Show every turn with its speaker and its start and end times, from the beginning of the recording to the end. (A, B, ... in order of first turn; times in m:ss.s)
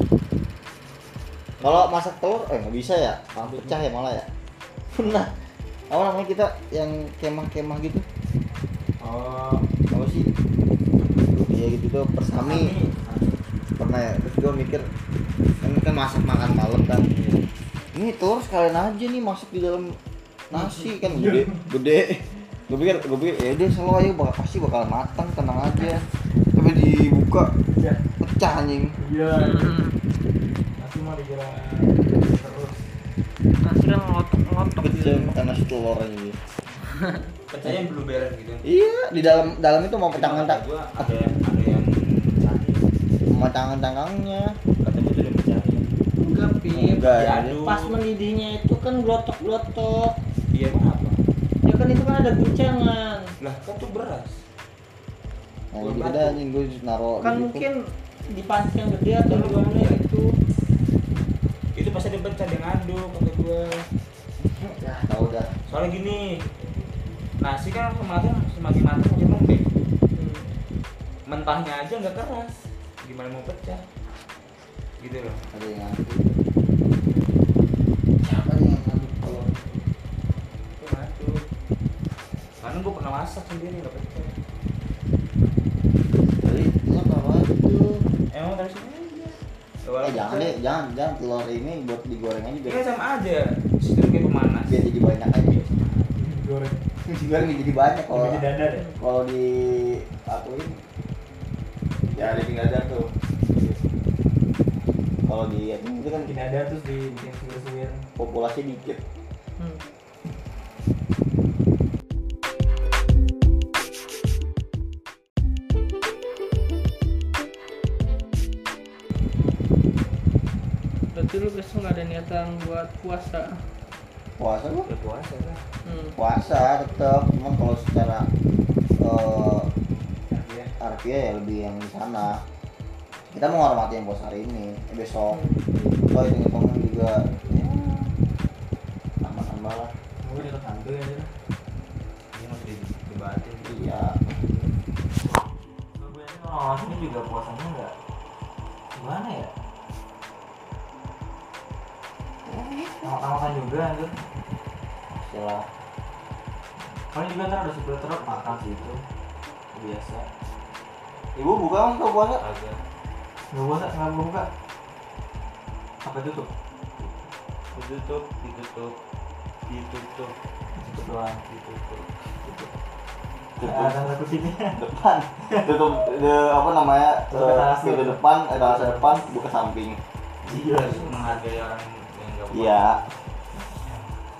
0:01.6-0:04.3 A
0:04.9-0:08.0 A
0:09.0-0:09.7 B
0:09.9-0:10.3 A
0:11.1-0:12.8 A
0:12.4-0:13.4 B
0:13.8-0:14.8 A
0:15.6-0:17.1 A
0:17.1-0:17.4 B
0:17.9-0:20.0 A
0:20.5-0:27.5 A
0:20.7-0:21.6 B
0:27.7-0:28.0 B
0:28.2-0:29.0 A
0:29.0-0:29.8 B
0:29.3-0:30.0 C
0:30.8-0:32.8 B
0:33.6-0:35.4 C
0:34.8-0:36.4 A
0:36.8-0:37.2 C
0:37.5-0:38.6 D
0:38.6-0:41.1 A
0:40.1-0:42.8 D
0:43.3-0:44.5 A
0:44.8-0:45.9 D
0:46.2-0:47.0 C
0:46.7-0:47.6 A
0:47.0-0:47.9 D
0:47.6-0:50.2 C
0:50.5-0:51.2 D
0:51.6-0:53.3 C
0:53.4-0:54.4 D
0:55.7-0:57.7 A
0:55.8-0:56.4 D
0:57.2-1:00.0 C
0:59.2-1:00.2 D
1:01.7-1:03.8 D
1:04.4-1:05.5 A
1:05.7-1:06.2 D
1:07.4-1:09.7 D
1:10.1-1:10.5 C
1:11.3-1:13.8 D
1:15.0-1:15.4 D
1:15.5-1:16.3 A
1:18.2-1:19.8 A
1:20.8-1:21.4 D
1:22.6-1:24.3 D
1:26.4-1:28.0 A
1:28.3-1:30.5 D
1:30.0-1:32.8 A
1:32.6-1:34.7 D
1:34.6-1:35.7 A
1:35.6-1:36.1 D
1:36.2-1:36.8 B
1:37.0-1:40.8 A
1:38.1-1:38.9 B
1:42.1-1:43.1 A
1:45.2-1:46.3 A
1:46.2-1:48.0 B
1:48.2-1:49.0 A
1:49.6-1:49.8 C
2:01.1-2:03.7 C
2:04.4-2:04.9 A
2:04.8-2:05.6 D
2:05.8-2:06.2 C
2:06.2-2:08.3 A
2:09.0-2:09.7 A
2:10.3-2:10.7 D
2:10.8-2:12.4 A
2:13.3-2:18.1 A
2:15.3-2:15.6 C
2:19.2-2:19.9 A
2:20.2-2:21.3 B
2:22.3-2:23.8 D
2:23.6-2:24.4 A
2:26.0-2:27.9 B
2:28.9-2:29.5 B
2:32.4-2:33.1 A
2:33.0-2:34.2 B
2:35.1-2:35.7 A
2:36.9-2:39.0 B
2:39.7-2:40.3 B
2:41.4-2:42.4 A
2:42.4-2:42.8 D
2:43.5-2:44.5 B
2:46.0-2:46.5 B
2:47.7-2:49.0 D
2:49.7-2:50.4 D
2:50.8-2:52.7 B
2:53.6-2:54.1 A
2:53.6-2:54.8 B
2:54.7-3:00.0 A
2:57.3-2:59.2 B
3:00.4-3:01.2 B
3:00.6-3:03.1 D
3:02.5-3:03.0 A